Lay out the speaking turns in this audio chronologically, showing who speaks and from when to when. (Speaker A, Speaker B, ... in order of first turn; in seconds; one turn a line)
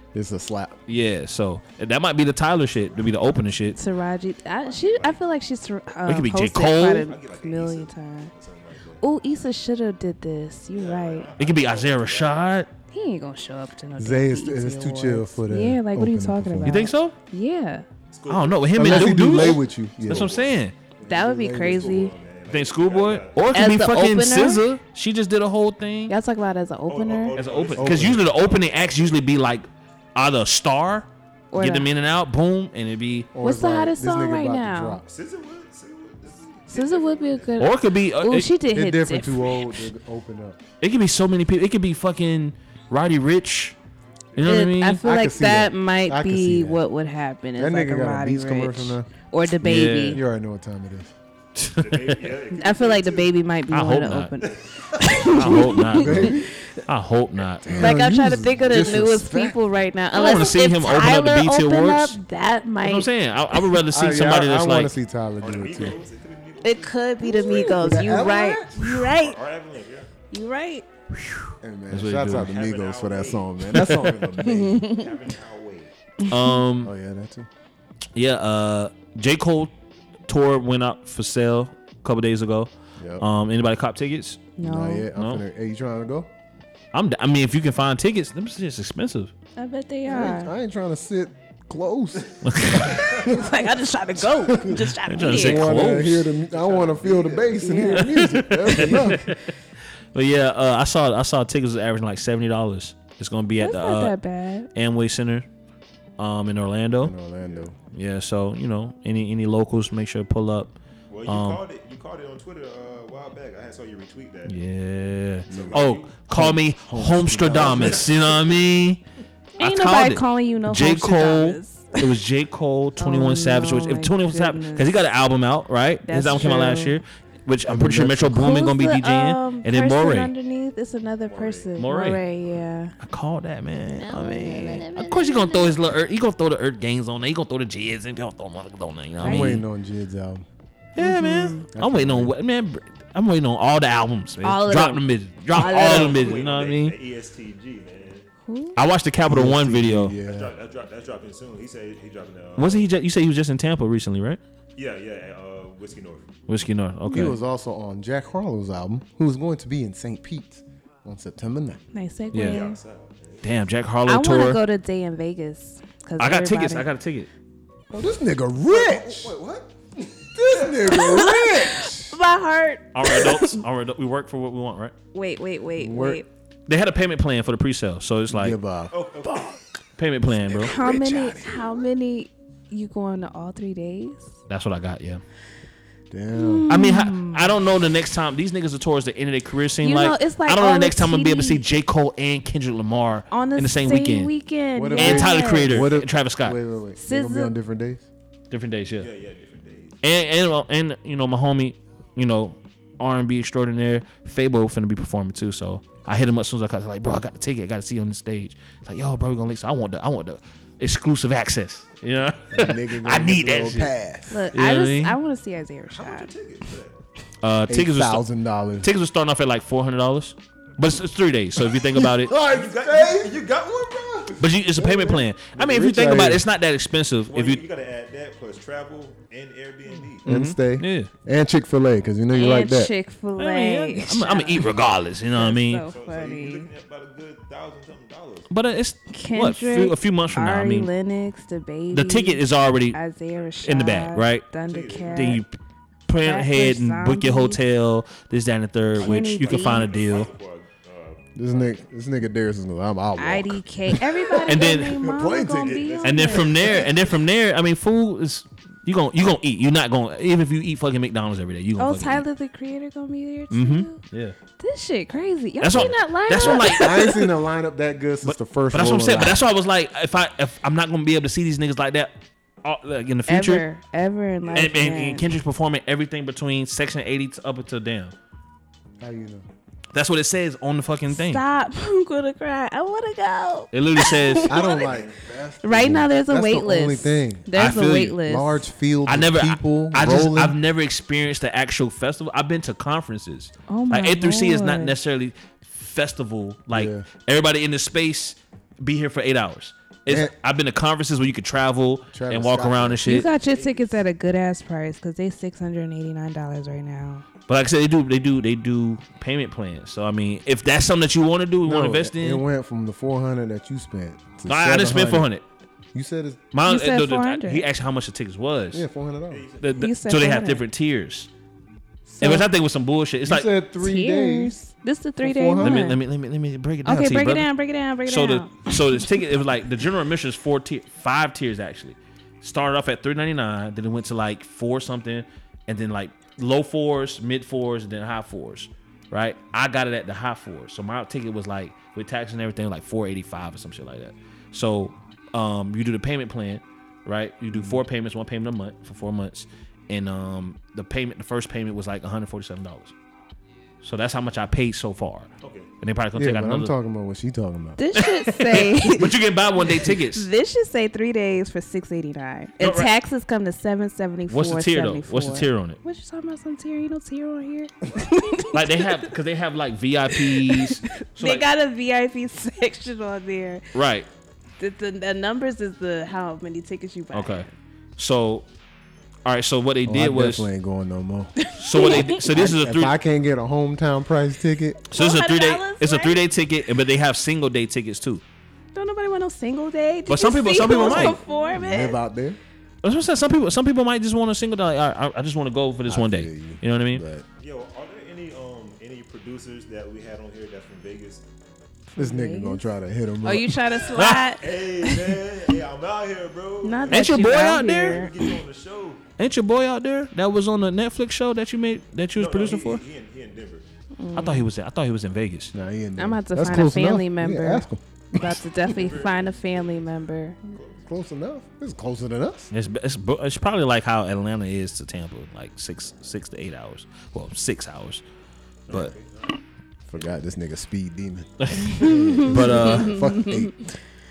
Speaker A: 0.1-0.8
Speaker B: 0.9-3.8
Speaker C: 3.8-8.3
Speaker D: 4.6-5.2
Speaker B: 6.0-7.1
Speaker D: 7.0-9.0
Speaker C: 9.0-11.3
Speaker D: 10.7-12.4
Speaker B: 11.4-12.7
Speaker C: 12.9-17.8
Speaker A: 14.0-16.9
Speaker B: 16.6-17.1
Speaker D: 18.1-20.6
Speaker B: 18.3-20.7
Speaker A: 18.8-20.3
Speaker A: 21.0-21.9
Speaker C: 21.1-22.1
Speaker D: 21.6-23.6
Speaker B: 22.5-26.1
Speaker C: 23.5-24.6
Speaker C: 26.1-27.4
Speaker D: 26.9-28.7
Speaker B: 27.3-33.3
Speaker A: 27.7-28.2
Speaker C: 31.5-31.9
Speaker A: 33.3-35.0
Speaker C: 33.4-35.0
Speaker D: 35.0-37.5
Speaker C: 36.7-39.7
Speaker B: 37.6-38.5
Speaker A: 38.7-40.6
Speaker B: 40.8-43.8
Speaker B: 44.3-45.0
Speaker C: 44.4-50.2
Speaker A: 45.0-46.8
Speaker A: 47.6-49.1
Speaker B: 49.6-50.2
Speaker A: 50.1-51.1
Speaker B: 51.5-52.3
Speaker D: 51.8-53.3
Speaker C: 52.5-56.7
Speaker B: 53.7-54.3
Speaker D: 54.4-55.5
Speaker B: 55.2-58.0
Speaker A: 55.9-56.5
Speaker A: 57.6-59.6
Speaker C: 57.7-63.1
Speaker B: 60.1-62.2
Speaker B: 62.8-64.9
Speaker A: 63.9-66.0
Speaker D: 65.4-68.3
Speaker C: 66.6-69.4
Speaker A: 67.2-69.0
Speaker D: 68.9-70.1
Speaker C: 70.3-70.8
Speaker B: 71.1-72.5
Speaker A: 71.6-74.9
Speaker D: 72.3-75.9
Speaker B: 73.7-74.2
Speaker C: 74.4-75.1
Speaker B: 76.2-76.9
Speaker A: 76.8-77.5
Speaker B: 78.1-79.7
Speaker B: 80.3-84.5
Speaker A: 83.0-83.2
Speaker C: 84.6-85.1
Speaker A: 84.6-86.3
Speaker B: 85.1-85.4
Speaker B: 86.9-89.3
Speaker C: 89.5-90.5
Speaker A: 90.1-93.5
Speaker B: 92.4-93.0
Speaker C: 92.8-95.7
Speaker A: 94.2-99.3
Speaker B: 95.0-96.3
Speaker D: 96.4-97.8
Speaker C: 97.6-98.5
Speaker B: 98.0-99.5
Speaker B: 100.1-104.1
Speaker C: 103.6-104.7
Speaker B: 104.7-105.5
Speaker B: 106.2-107.1
Speaker A: 107.0-107.8
Speaker D: 107.4-107.7
Speaker B: 107.9-111.6
Speaker D: 111.1-114.6
Speaker B: 114.5-119.0
Speaker D: 115.5-116.2
Speaker A: 115.5-118.1
Speaker D: 117.6-118.1
Speaker C: 119.6-122.1
Speaker B: 119.6-130.3
Speaker C: 123.0-125.0
Speaker C: 126.0-127.0
Speaker A: 127.7-128.4
Speaker C: 128.3-132.9
Speaker D: 131.3-131.7
Speaker B: 131.8-132.2
Speaker B: 133.0-139.6
Speaker C: 134.0-135.8
Speaker A: 139.2-140.4
Speaker C: 139.2-139.6
Speaker B: 140.9-147.0
Speaker C: 141.0-141.6
Speaker A: 141.7-142.3
Speaker C: 144.4-146.4
Speaker D: 145.5-148.3
Speaker C: 148.4-148.8
Speaker B: 148.7-150.2
Speaker A: 149.3-150.6
Speaker D: 150.2-152.9
Speaker B: 152.6-154.4
Speaker D: 154.8-156.3
Speaker B: 156.5-157.4
Speaker A: 157.1-161.8
Speaker C: 161.9-162.8
Speaker B: 162.3-162.6
Speaker D: 162.3-163.5
Speaker B: 163.4-164.6
Speaker C: 164.1-166.9
Speaker B: 166.2-167.3
Speaker A: 167.9-169.3
Speaker D: 168.6-170.8
Speaker A: 170.3-172.2
Speaker C: 170.8-173.6
Speaker B: 172.9-174.9
Speaker C: 175.1-176.3
Speaker A: 175.8-176.2
Speaker B: 176.7-178.6
Speaker A: 178.3-179.5
Speaker D: 178.9-179.6
Speaker B: 180.0-180.7
Speaker A: 180.4-181.8
Speaker C: 180.6-184.3
Speaker D: 180.6-181.2
Speaker B: 184.5-185.2
Speaker A: 186.1-186.7
Speaker C: 186.3-187.6
Speaker B: 186.7-194.3
Speaker C: 189.8-191.6
Speaker C: 193.3-195.9
Speaker A: 194.7-198.1
Speaker B: 194.9-196.6
Speaker C: 197.0-197.5
Speaker B: 198.5-199.1
Speaker D: 199.0-200.0
Speaker B: 200.0-213.9
Speaker A: 212.5-214.4
Speaker C: 214.3-216.3
Speaker B: 214.5-215.2
Speaker D: 215.9-217.0
Speaker B: 217.4-218.2
Speaker A: 217.7-218.9
Speaker B: 218.8-222.3
Speaker A: 222.0-223.4
Speaker D: 222.4-224.5
Speaker B: 224.4-227.6
Speaker A: 224.8-226.4
Speaker D: 227.3-230.2
Speaker B: 230.2-231.1
Speaker A: 230.2-232.9
Speaker C: 232.3-234.7
Speaker B: 233.4-235.9
Speaker C: 235.3-236.7
Speaker D: 235.8-238.5
Speaker B: 238.5-240.9
Speaker C: 239.1-245.4
Speaker B: 241.9-243.0
Speaker B: 243.6-244.4
Speaker D: 244.7-245.4
Speaker B: 245.1-245.6
Speaker B: 246.1-250.3
Speaker C: 246.2-247.6
Speaker C: 249.0-249.9
Speaker D: 249.0-251.8
Speaker A: 251.3-256.0
Speaker C: 253.2-256.9
Speaker B: 254.4-255.0
Speaker D: 255.2-257.1
Speaker B: 256.0-262.2
Speaker C: 261.8-264.0
Speaker B: 263.5-264.4
Speaker C: 264.6-267.3
Speaker B: 265.6-267.0
Speaker A: 266.4-269.4
Speaker B: 268.2-273.6
Speaker C: 273.3-275.3
Speaker B: 274.5-278.1
Speaker A: 279.0-279.4
Speaker B: 279.9-281.4
Speaker C: 281.1-284.6
Speaker B: 283.7-284.6
Speaker D: 284.4-285.2
Speaker A: 284.4-287.5
Speaker C: 285.6-288.7
Speaker B: 287.5-288.2
Speaker A: 288.1-290.6
Speaker B: 289.1-303.3
Speaker C: 293.7-294.9
Speaker A: 296.7-297.1
Speaker A: 300.1-300.3
Speaker A: 302.1-303.2
Speaker C: 303.1-307.2
Speaker D: 303.3-304.0
Speaker B: 307.5-312.4
Speaker A: 311.6-315.3
Speaker B: 314.4-315.4
Speaker A: 315.9-316.4
Speaker B: 316.5-318.8
Speaker C: 316.6-317.6
Speaker A: 318.7-319.4
Speaker D: 319.3-319.7
Speaker B: 319.6-321.3
Speaker C: 319.7-320.6
Speaker C: 322.1-322.4
Speaker B: 322.2-323.5
Speaker A: 323.2-324.6
Speaker C: 323.8-326.0
Speaker A: 325.2-325.8
Speaker B: 325.6-327.5
Speaker C: 326.8-329.1
Speaker B: 328.1-352.9
Speaker A: 347.5-347.8
Speaker B: 353.8-355.3
Speaker D: 355.4-355.7
Speaker B: 355.8-356.7
Speaker A: 356.1-357.8
Speaker C: 357.8-369.1
Speaker B: 357.9-360.3
Speaker B: 362.6-362.9
Speaker B: 364.3-365.8
Speaker B: 368.5-371.4
Speaker C: 370.1-373.7
Speaker B: 373.7-374.1
Speaker C: 374.6-377.5
Speaker B: 377.1-377.4
Speaker B: 378.0-378.4
Speaker B: 379.2-380.5
Speaker A: 379.9-381.4
Speaker C: 381.4-382.2
Speaker B: 381.6-382.9
Speaker A: 381.9-384.8
Speaker B: 384.9-388.2
Speaker C: 384.9-386.2
Speaker C: 388.7-392.0
Speaker B: 390.1-391.2
Speaker A: 390.7-392.4
Speaker B: 392.8-397.0
Speaker A: 395.9-397.2
Speaker D: 397.4-401.2
Speaker A: 401.9-403.6
Speaker C: 401.9-402.6
Speaker C: 403.2-405.2
Speaker B: 403.9-404.3
Speaker D: 404.1-409.0
Speaker C: 406.6-408.4
Speaker B: 406.9-408.0
Speaker B: 409.2-412.8
Speaker D: 412.1-413.6
Speaker C: 414.0-414.4
Speaker B: 414.1-415.5
Speaker A: 415.5-418.4
Speaker C: 416.0-420.4
Speaker D: 418.6-420.9
Speaker A: 420.9-422.5
Speaker B: 422.5-428.0
Speaker D: 428.7-429.4
Speaker B: 428.7-428.9
Speaker A: 429.9-433.7
Speaker B: 431.4-433.0
Speaker C: 431.7-433.5